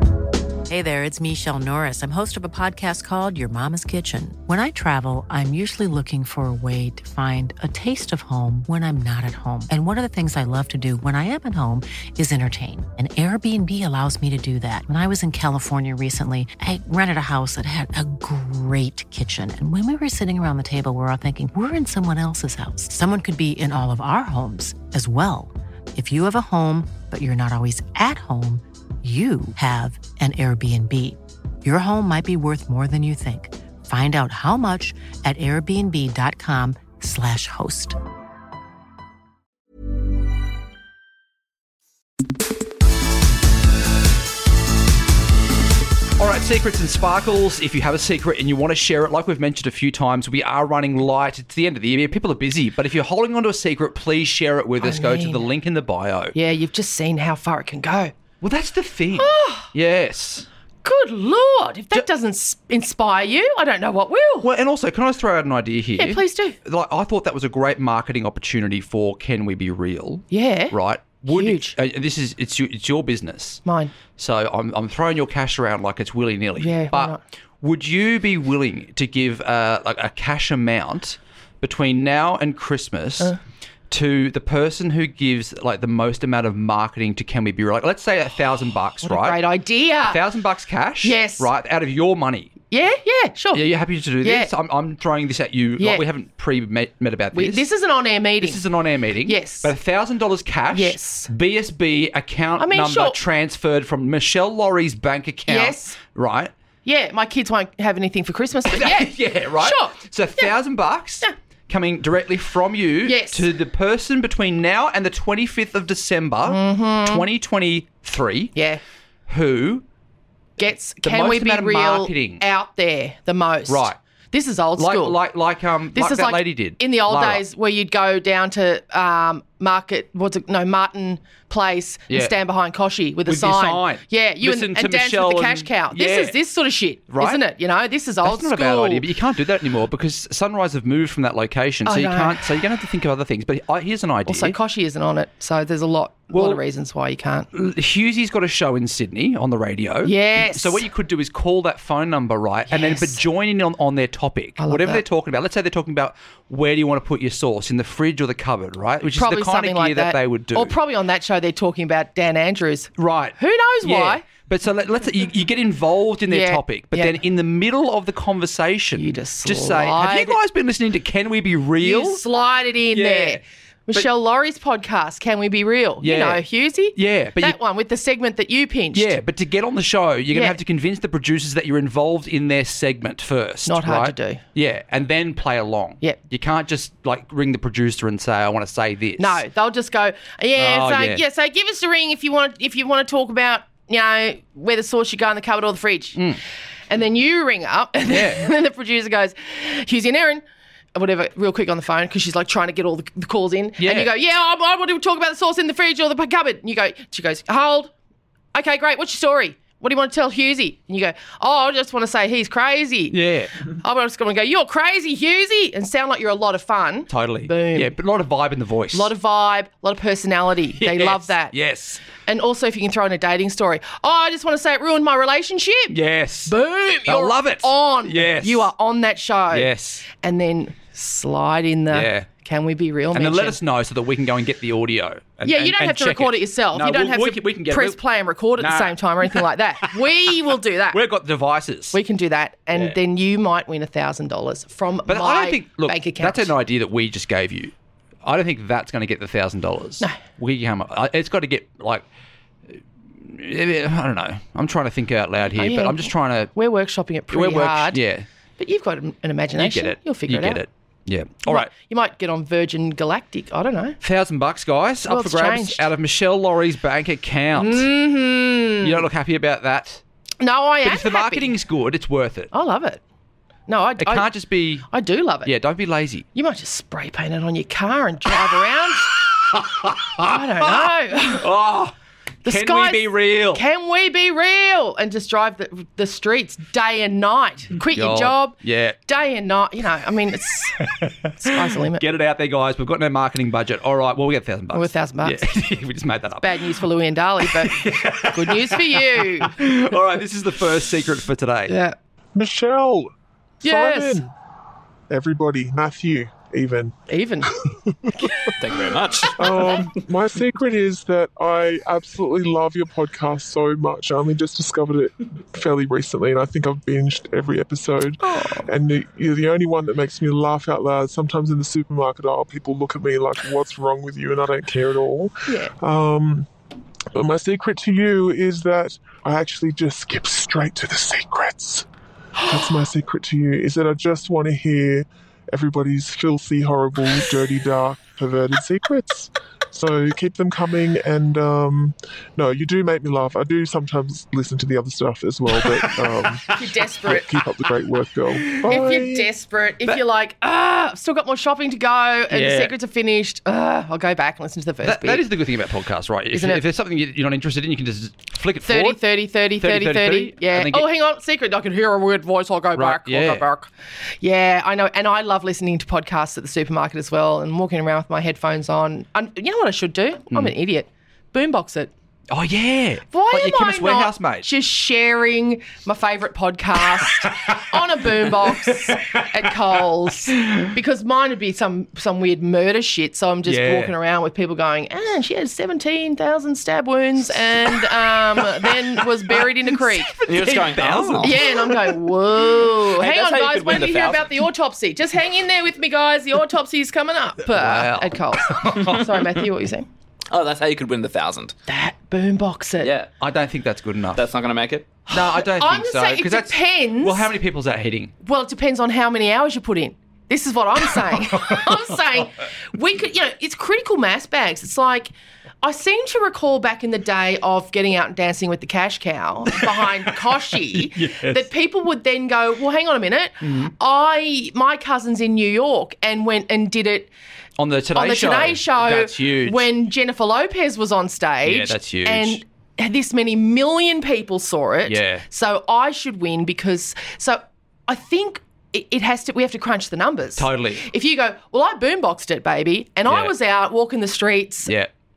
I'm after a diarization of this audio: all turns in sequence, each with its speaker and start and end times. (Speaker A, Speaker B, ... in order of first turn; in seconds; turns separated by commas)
Speaker A: 0.7-38.0, Speaker B: 46.2-56.4, Speaker C: 54.8-55.5, Speaker C: 56.4-58.1, Speaker B: 58.4-60.5, Speaker C: 59.2-59.7, Speaker C: 60.8-64.5, Speaker B: 64.4-83.3, Speaker C: 66.0-66.6, Speaker C: 70.3-71.8, Speaker C: 73.7-73.9, Speaker C: 76.6-77.2, Speaker B: 83.9-89.4, Speaker C: 89.0-90.2, Speaker B: 90.1-92.6, Speaker C: 91.0-91.5, Speaker C: 92.7-93.7, Speaker B: 93.5-97.7, Speaker C: 94.2-94.5, Speaker C: 95.8-96.1, Speaker C: 97.3-98.6, Speaker B: 98.4-106.5, Speaker C: 99.2-99.7, Speaker C: 100.7-101.3, Speaker C: 102.6-103.2, Speaker C: 105.5-106.0, Speaker C: 106.8-110.5, Speaker B: 108.7-118.5, Speaker C: 113.0-113.5, Speaker C: 116.5-117.3, Speaker C: 118.5-118.8, Speaker B: 119.3-119.8, Speaker C: 120.6-125.2, Speaker B: 121.0-122.4, Speaker B: 123.7-124.0, Speaker B: 124.8-127.4, Speaker C: 125.9-139.0, Speaker B: 133.3-136.3, Speaker B: 137.1-137.4, Speaker B: 138.2-144.6, Speaker C: 141.9-142.5, Speaker C: 144.3-147.5, Speaker B: 146.3-146.6, Speaker B: 147.5-160.8, Speaker C: 150.0-150.8, Speaker C: 152.7-153.2, Speaker C: 154.6-155.0, Speaker C: 159.1-164.2, Speaker B: 163.0-172.2, Speaker C: 166.3-167.2, Speaker C: 169.0-170.4, Speaker C: 171.8-179.2, Speaker B: 172.9-173.4, Speaker B: 176.0-176.4, Speaker B: 176.9-177.6, Speaker B: 178.9-189.4, Speaker C: 180.3-180.6, Speaker C: 183.7-184.4, Speaker C: 189.2-196.2, Speaker B: 190.6-191.2, Speaker C: 196.9-200.4, Speaker B: 198.1-198.5, Speaker C: 200.9-207.9, Speaker B: 203.8-204.1, Speaker C: 208.5-213.2, Speaker B: 213.1-213.5, Speaker C: 213.7-217.9, Speaker B: 217.1-219.1, Speaker C: 218.9-221.5, Speaker B: 220.8-222.0, Speaker C: 222.2-225.9, Speaker B: 225.9-226.5, Speaker C: 226.5-233.6, Speaker B: 227.1-228.7, Speaker B: 229.5-230.1, Speaker B: 231.9-232.3, Speaker B: 233.1-238.0, Speaker C: 235.4-241.0, Speaker B: 238.6-240.3, Speaker B: 240.9-242.0, Speaker C: 241.9-246.5, Speaker B: 245.1-247.7, Speaker B: 248.2-252.1, Speaker B: 253.2-256.5, Speaker C: 255.5-258.0, Speaker B: 257.3-258.2, Speaker C: 258.6-260.6, Speaker B: 259.6-261.7, Speaker C: 261.5-264.0, Speaker B: 264.0-267.9, Speaker C: 265.1-265.9, Speaker C: 267.6-269.1, Speaker B: 268.8-270.0, Speaker C: 270.4-271.5, Speaker B: 270.8-272.5, Speaker C: 272.5-273.0, Speaker C: 273.7-274.3, Speaker B: 274.0-274.9, Speaker C: 274.9-275.5, Speaker B: 275.4-276.3, Speaker C: 276.4-279.1, Speaker B: 279.1-281.9, Speaker C: 280.2-281.5, Speaker C: 282.4-290.8, Speaker B: 282.5-283.6, Speaker B: 287.9-289.0, Speaker B: 290.8-296.7, Speaker C: 291.4-292.0, Speaker C: 294.7-295.4, Speaker C: 296.4-299.5, Speaker B: 297.4-301.7, Speaker C: 301.7-302.0, Speaker D: 302.4-303.1, Speaker C: 303.6-304.3, Speaker D: 303.6-304.3, Speaker D: 305.1-307.0, Speaker C: 307.1-307.5, Speaker E: 308.6-309.3, Speaker D: 309.4-326.5, Speaker C: 309.5-309.9, Speaker C: 318.2-318.7, Speaker C: 325.5-325.7, Speaker D: 327.1-331.9, Speaker C: 332.4-332.8, Speaker D: 332.5-346.5, Speaker C: 346.5-347.4, Speaker D: 347.1-349.3, Speaker C: 348.6-355.3, Speaker B: 352.3-352.7, Speaker B: 354.8-359.0, Speaker C: 356.3-356.6, Speaker C: 358.6-371.9, Speaker B: 359.6-360.9, Speaker B: 362.8-363.4, Speaker B: 372.3-374.5, Speaker C: 373.1-390.2, Speaker B: 377.2-377.6, Speaker B: 378.3-379.5, Speaker B: 380.3-380.7, Speaker B: 383.5-383.9, Speaker B: 388.4-392.0, Speaker E: 390.3-391.5, Speaker C: 391.2-399.9, Speaker E: 392.6-394.5, Speaker B: 397.5-399.2, Speaker E: 400.3-401.5, Speaker C: 401.7-402.9, Speaker E: 402.8-403.1, Speaker B: 403.2-404.2, Speaker E: 404.1-404.9, Speaker B: 405.1-408.1, Speaker C: 405.1-407.3, Speaker C: 408.2-415.1, Speaker B: 410.9-411.9, Speaker C: 415.6-427.1, Speaker B: 419.5-421.5, Speaker B: 423.4-423.7, Speaker B: 427.6-429.7, Speaker C: 427.9-444.7, Speaker B: 431.4-432.4, Speaker B: 434.9-435.2, Speaker B: 440.4-440.9, Speaker B: 443.1-443.3